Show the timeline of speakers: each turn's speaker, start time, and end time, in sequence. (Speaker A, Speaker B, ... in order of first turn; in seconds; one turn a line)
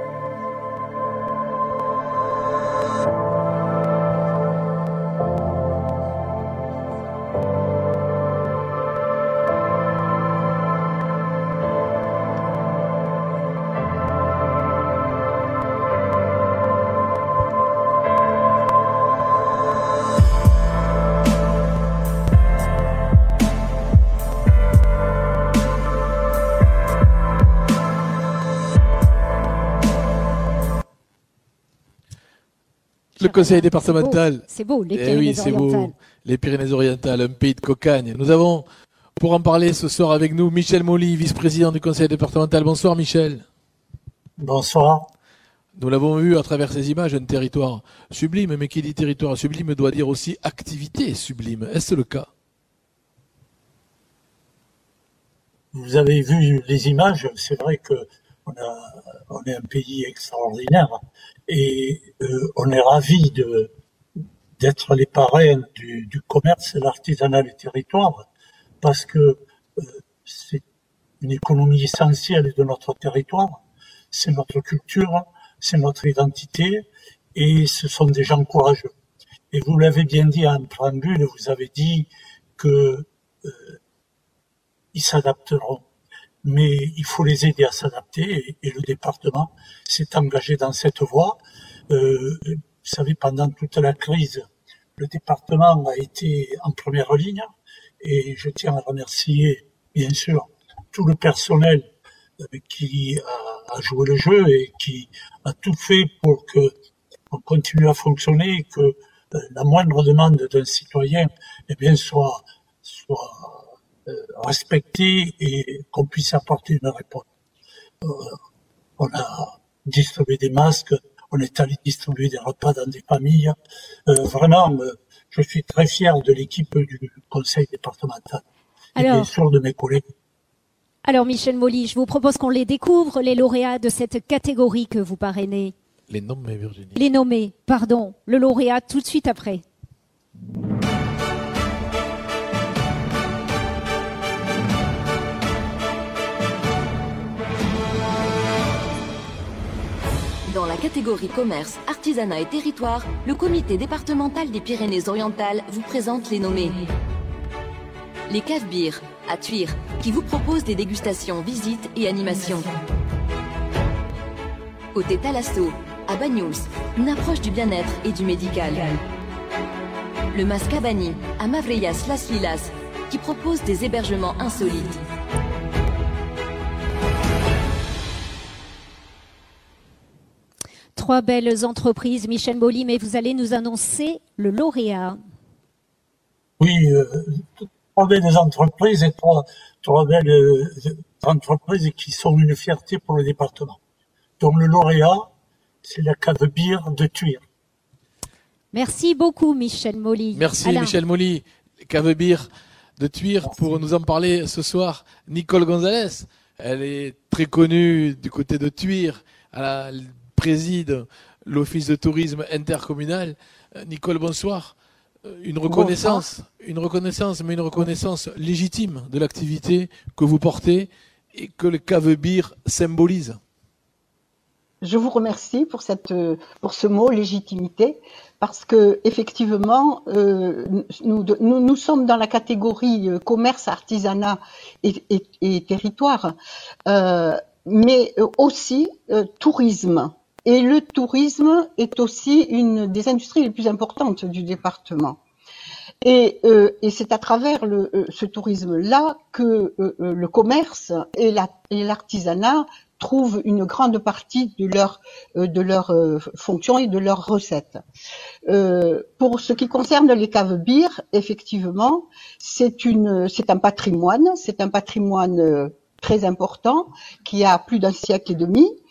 Speaker A: 33.2-38.7
Speaker B: 33.2-35.9
Speaker A: 39.2-43.5
Speaker C: 44.4-45.1
Speaker A: 45.8-52.3
Speaker C: 55.7-63.7
Speaker C: 64.6-68.2
Speaker C: 68.8-70.6
Speaker C: 71.2-78.9
Speaker C: 79.5-83.8
Speaker C: 84.9-85.8
Speaker C: 86.4-91.4
Speaker C: 91.9-94.4
Speaker C: 95.0-97.5
Speaker C: 98.0-101.9
Speaker C: 102.4-106.7
Speaker C: 107.3-117.2
Speaker C: 118.0-118.3
Speaker C: 119.0-123.6
Speaker C: 124.1-128.4
Speaker B: 129.0-129.3
Speaker C: 129.0-130.0
Speaker B: 131.1-135.7
Speaker A: 136.1-137.0
Speaker B: 137.0-139.6
Speaker D: 150.5-156.8
Speaker D: 158.3-162.8
Speaker D: 164.9-169.0
Speaker D: 170.3-175.0
Speaker B: 180.9-185.2
Speaker C: 186.6-193.8
Speaker C: 194.4-195.3
Speaker C: 195.8-197.4
Speaker B: 198.7-201.0
Speaker A: 200.3-223.4
Speaker E: 215.7-216.2
Speaker E: 224.8-236.3
Speaker E: 236.9-245.2
Speaker E: 246.0-257.8
Speaker E: 258.5-268.7